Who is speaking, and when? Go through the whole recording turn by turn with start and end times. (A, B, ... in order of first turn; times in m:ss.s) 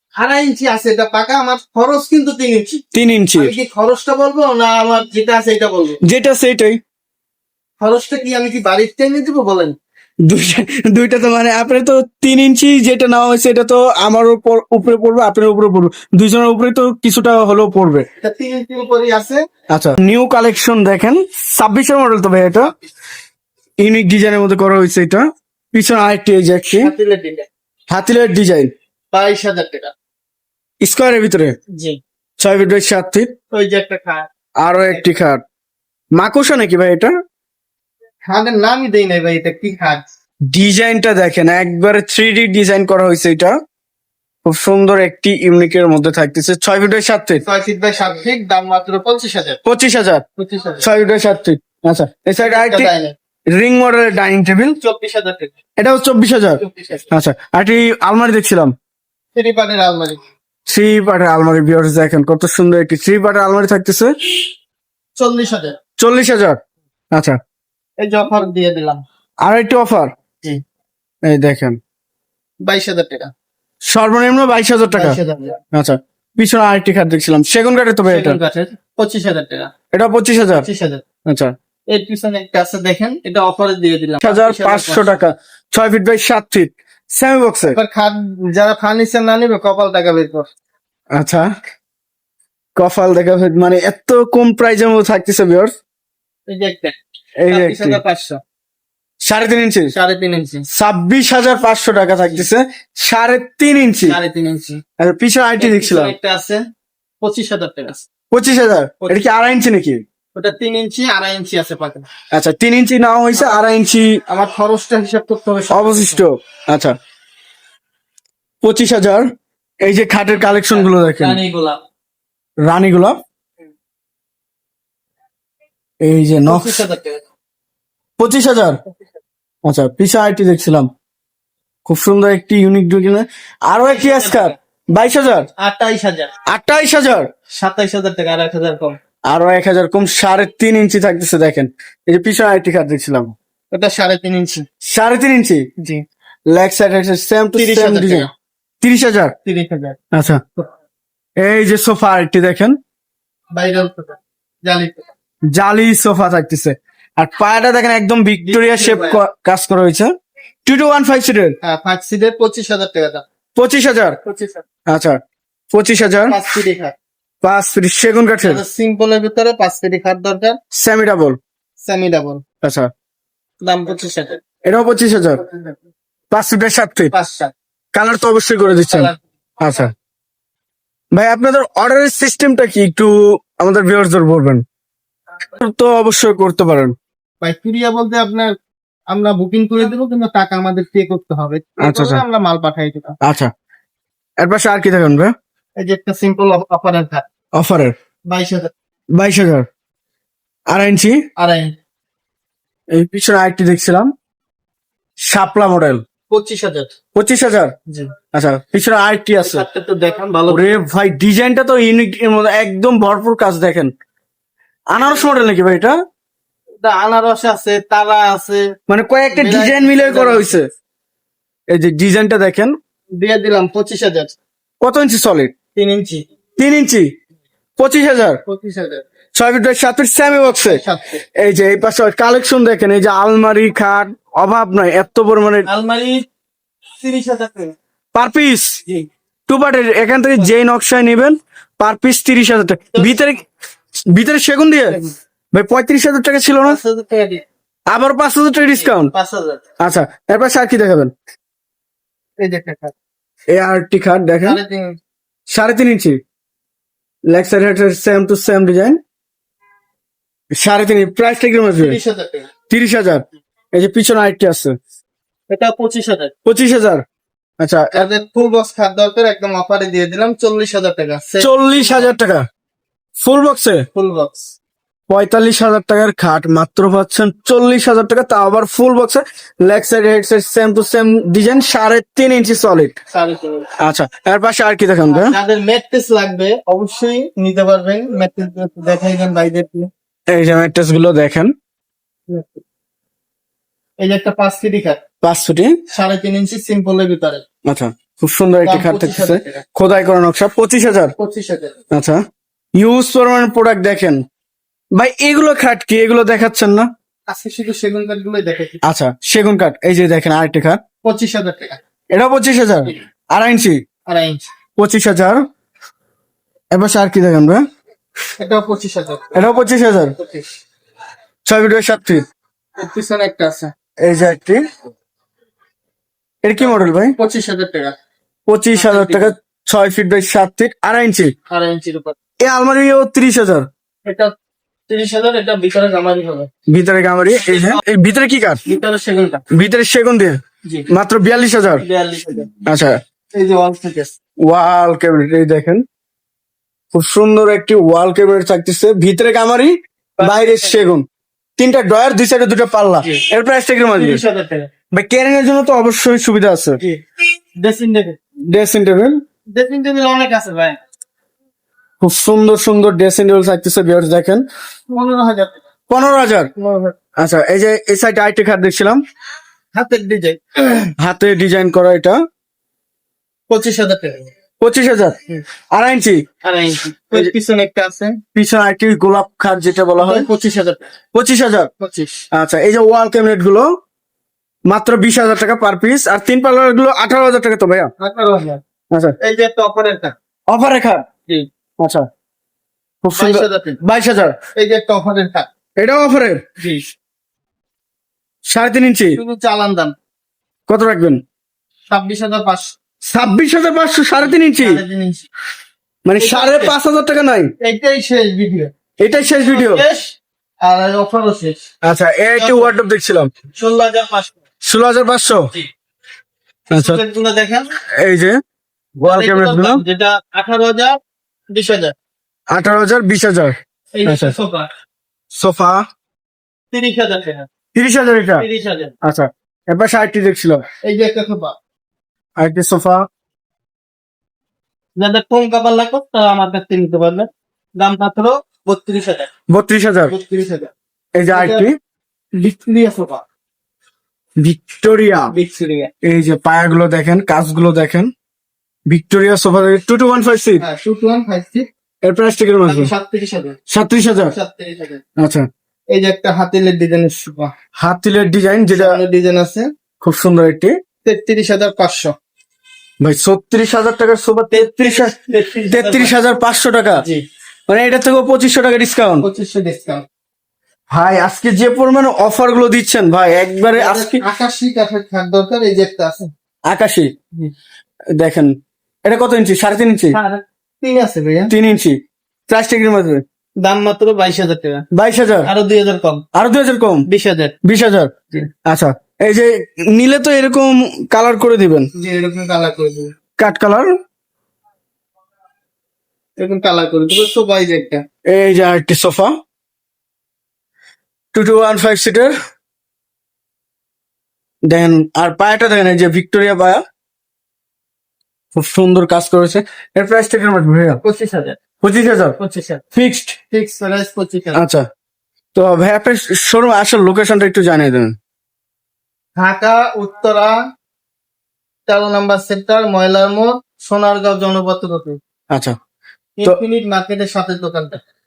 0:00.2-0:02.8 A
0:02.9-0:03.5 B
0:03.4-0:06.0 A
0:06.0-0:06.8 B
0:07.8-0:09.8 A
0:10.3-0:18.1 B
0:18.2-0:19.4 A
0:19.7-0:22.7 B
0:23.8-0:26.9 B
0:26.8-0:27.5 A
0:27.9-0:28.7 B
0:29.1-0:29.9 A
0:30.8-0:31.6 B
0:31.7-0:32.0 A
0:32.4-0:33.3 B
0:33.5-0:34.3 A
0:34.6-0:35.4 B
0:36.1-0:37.1 B
0:38.3-0:40.1 A
0:40.5-0:43.5 B
0:44.4-0:47.4 B
0:47.4-0:49.6 A
0:49.6-0:50.2 B
0:50.4-0:50.8 A
0:50.8-0:52.9 B
0:52.4-0:53.1 A
0:53.5-0:54.8 B
0:54.8-0:55.5 A
0:55.8-0:56.6 B
0:56.6-0:57.1 A
0:57.1-0:58.7 B
0:59.4-1:00.2 A
1:00.7-1:04.4 B
1:05.2-1:05.8 A
1:06.0-1:06.6 B
1:08.0-1:09.0 A
1:09.4-1:10.1 B
1:11.2-1:11.8 B
1:12.6-1:13.3 A
1:13.9-1:15.2 B
1:14.9-1:15.6 A
1:15.7-1:18.4 B
1:18.1-1:19.7 A
1:19.9-1:20.7 B
1:20.6-1:21.0 A
1:21.3-1:21.5 B
1:21.9-1:25.2 A
1:24.2-1:27.8 B
1:27.7-1:30.5 A
1:31.1-1:31.5 B
1:32.8-1:35.7 B
1:36.5-1:37.0 A
1:37.4-1:38.0 B
1:37.5-1:38.4 A
1:39.2-1:39.9 B
1:39.9-1:40.7 A
1:40.7-1:44.2 B
1:44.0-1:44.8 A
1:45.0-1:46.1 B
1:45.6-1:46.6 A
1:47.2-1:48.0 A
1:48.3-1:50.0 B
1:49.0-1:49.3 A
1:50.4-1:52.1 A
1:52.3-1:54.2 B
1:53.4-1:53.6 A
1:54.3-1:56.2 A
1:55.7-1:57.0 B
1:58.6-1:59.3 B
1:59.8-2:01.4 B
2:00.5-2:01.8 A
2:02.6-2:03.2 B
2:06.0-2:06.8 B
2:06.5-2:07.2 A
2:08.2-2:08.8 B
2:09.6-2:10.9 B
2:11.9-2:15.5 B
2:13.8-2:14.6 A
2:15.6-2:16.3 A
2:16.5-2:17.3 B
2:17.6-2:19.0 A
2:19.3-2:23.3 B
2:23.7-2:24.6 A
2:24.8-2:25.6 B
2:25.8-2:26.0 A
2:26.5-2:28.3 B
2:27.5-2:28.3 A
2:28.8-2:29.4 B
2:29.4-2:30.0 A
2:30.1-2:30.4 B
2:31.4-2:32.8 B
2:33.5-2:35.0 A
2:35.5-2:40.1 B
2:38.4-2:39.2 A
2:40.7-2:41.6 B
2:41.6-2:43.2 A
2:43.6-2:44.2 B
2:44.2-2:44.6 A
2:44.9-2:45.2 B
2:45.7-2:46.4 B
2:46.3-2:47.0 A
2:47.4-2:48.6 B
2:48.4-2:50.6 A
2:50.7-2:51.4 B
2:51.8-2:52.4 A
2:52.6-2:52.9 B
2:53.6-2:54.4 A
2:54.6-2:55.4 B
2:56.3-2:57.1 B
2:57.1-2:57.5 A
2:57.9-2:59.1 B
2:58.9-2:59.2 A
2:59.6-2:59.9 B
3:01.1-3:04.6 B
3:05.6-3:06.9 B
3:07.4-3:08.5 A
3:09.1-3:13.2 A
3:11.8-3:12.2 B
3:13.2-3:13.5 B
3:14.4-3:15.3 B
3:15.8-3:17.2 A
3:17.6-3:17.9 B
3:18.3-3:18.7 A
3:19.2-3:19.7 B
3:20.7-3:21.2 B
3:21.4-3:21.7 A
3:22.9-3:24.1 B
3:25.3-3:26.0 B
3:26.3-3:26.9 A
3:27.2-3:27.7 B
3:28.3-3:29.6 B
3:29.4-3:30.7 A
3:30.5-3:33.9 B
3:34.9-3:36.0 B
3:36.8-3:38.7 A
3:38.9-3:40.7 B
3:39.3-3:40.6 A
3:41.7-3:42.7 B
3:43.2-3:44.4 A
3:44.8-3:45.5 B
3:45.8-3:46.2 A
3:46.6-3:47.1 B
3:47.8-3:48.4 B
3:48.5-3:49.0 A
3:49.4-3:50.8 B
3:50.3-3:51.2 A
3:51.4-3:55.7 B
3:55.7-3:56.2 A
3:57.0-3:57.8 A
3:58.1-3:58.8 B
3:59.5-4:03.4 B
4:02.9-4:03.2 A
4:04.1-4:05.0 B
4:04.9-4:05.2 A
4:05.5-4:06.8 B
4:06.6-4:07.4 A
4:07.9-4:09.1 B
4:08.7-4:09.6 A
4:09.8-4:11.1 B
4:12.4-4:12.9 A
4:13.5-4:14.6 B
4:14.4-4:15.0 A
4:15.5-4:16.2 B
4:17.3-4:19.0 B
4:20.6-4:22.0 B
4:21.8-4:22.5 A
4:22.7-4:24.8 B
4:25.5-4:26.3 A
4:26.4-4:27.0 B
4:27.6-4:28.0 B
4:27.9-4:32.1 A
4:31.4-4:32.4 B
4:33.2-4:33.8 B
4:33.9-4:34.5 A
4:35.1-4:43.0 B
4:43.1-4:43.7 A
4:43.8-4:45.4 B
4:45.1-4:49.9 A
4:50.3-4:51.5 B
4:52.3-4:52.6 A
4:54.0-4:55.0 A
4:55.2-4:55.8 B
4:55.9-4:57.4 A
4:57.6-5:01.1 B
4:58.6-4:59.6 A
5:01.2-5:01.8 A
5:01.9-5:02.2 B
5:02.8-5:04.2 B
5:04.9-5:06.9 B
5:07.3-5:08.8 A
5:08.8-5:10.8 B
5:11.0-5:11.8 A
5:12.1-5:13.8 B
5:14.1-5:14.5 A
5:14.8-5:15.4 B
5:16.7-5:17.6 B
5:18.4-5:19.4 A
5:19.3-5:20.1 B
5:20.2-5:20.4 A
5:21.5-5:22.2 B
5:22.8-5:23.7 A
5:24.0-5:24.7 B
5:26.4-5:27.2 B
5:27.2-5:28.0 A
5:28.5-5:31.3 B
5:28.7-5:29.3 A
5:31.5-5:32.2 A
5:32.4-5:33.7 B
5:34.0-5:34.3 A
5:34.9-5:36.5 A
5:36.7-5:38.6 B
5:37.4-5:37.8 A
5:38.6-5:39.4 A
5:39.5-5:40.4 B
5:40.9-5:41.8 B
5:41.7-5:42.5 A
5:42.7-5:43.0 B
5:43.3-5:44.2 A
5:44.4-5:45.8 B
5:46.9-5:51.0 B
5:50.2-5:50.9 A
5:51.6-5:54.2 B
5:53.9-5:54.7 A
5:54.9-5:56.8 B
5:57.6-5:58.2 A
5:58.5-5:59.2 B
5:59.5-6:00.8 A
6:02.0-6:04.4 B
6:04.9-6:05.6 A
6:05.9-6:06.5 B
6:06.6-6:07.0 A
6:07.2-6:09.0 B
6:09.7-6:10.9 A
6:11.0-6:12.2 B
6:13.5-6:14.3 A
6:14.6-6:15.2 B
6:15.7-6:16.2 B
6:16.4-6:18.2 A
6:18.4-6:20.3 B
6:20.0-6:20.8 A
6:21.1-6:21.7 B
6:21.8-6:22.2 A
6:22.3-6:23.7 B
6:24.7-6:27.9 B
6:28.0-6:28.6 A
6:29.2-6:30.2 A
6:30.5-6:31.0 B
6:31.8-6:32.1 B
6:33.0-6:34.4 B
6:33.2-6:33.8 A
6:34.6-6:35.5 A
6:35.8-6:36.4 B
6:36.6-6:36.9 A
6:38.5-6:39.2 B
6:39.2-6:39.9 A
6:40.7-6:41.2 B
6:41.9-6:42.8 A
6:43.1-6:44.8 B
6:44.2-6:45.3 A
6:46.1-6:47.5 B
6:46.2-6:46.8 A
6:47.6-6:48.7 A
6:49.0-6:49.8 B
6:49.4-6:51.6 A
6:51.8-6:53.3 B
6:52.4-6:52.7 A
6:53.6-6:54.4 A
6:54.6-6:55.5 B
6:56.7-6:57.7 A
6:56.7-6:57.0 B
6:58.0-6:58.4 B
6:59.0-6:59.8 B
6:59.0-7:01.0 A
7:01.5-7:01.9 A
7:02.5-7:04.4 B
7:04.0-7:04.7 A
7:05.3-7:05.8 B
7:06.7-7:07.5 A
7:07.8-7:08.4 B
7:08.4-7:08.9 A
7:09.0-7:10.6 B
7:10.8-7:11.6 A
7:12.4-7:13.1 B
7:15.0-7:19.3 A
7:19.5-7:20.1 B
7:20.1-7:20.7 A
7:21.2-7:21.8 B
7:21.3-7:21.6 A
7:22.3-7:23.2 A
7:24.4-7:25.3 B
7:25.3-7:25.9 A
7:26.0-7:28.1 B
7:28.9-7:30.6 B
7:30.6-7:31.7 A
7:32.0-7:32.9 B
7:32.6-7:33.6 A
7:33.7-7:34.3 B
7:34.3-7:35.0 A
7:35.2-7:35.5 B
7:35.9-7:37.5 A
7:37.8-7:39.0 B
7:38.7-7:39.7 A
7:40.0-7:40.8 B
7:41.0-7:42.1 A
7:43.0-7:45.1 B
7:44.5-7:46.2 A
7:45.7-7:47.0 B
7:47.7-7:49.3 B
7:49.2-7:50.0 A
7:50.9-7:54.2 B
7:53.8-7:56.3 A
7:56.7-7:57.1 B
7:58.2-7:58.5 B
7:59.0-8:00.2 B
8:00.1-8:01.5 A
8:01.5-8:02.0 B
8:02.5-8:03.2 B
8:03.6-8:04.8 A
8:04.9-8:05.5 B
8:05.5-8:06.2 A
8:06.3-8:07.0 B
8:07.1-8:07.6 A
8:07.6-8:11.9 B
8:12.0-8:13.1 A
8:13.4-8:13.9 B
8:16.4-8:18.0 A
8:18.3-8:19.3 B
8:21.3-8:22.3 B
8:24.7-8:26.8 B
8:28.5-8:31.0 B
8:31.0-8:31.6 A
8:31.8-8:32.4 B
8:32.4-8:32.8 A
8:32.9-8:33.4 B
8:33.5-8:34.6 A
8:34.6-8:34.8 B
8:35.6-8:38.1 B
8:39.4-8:40.6 A
8:41.9-8:45.2 A
8:46.4-8:48.0 A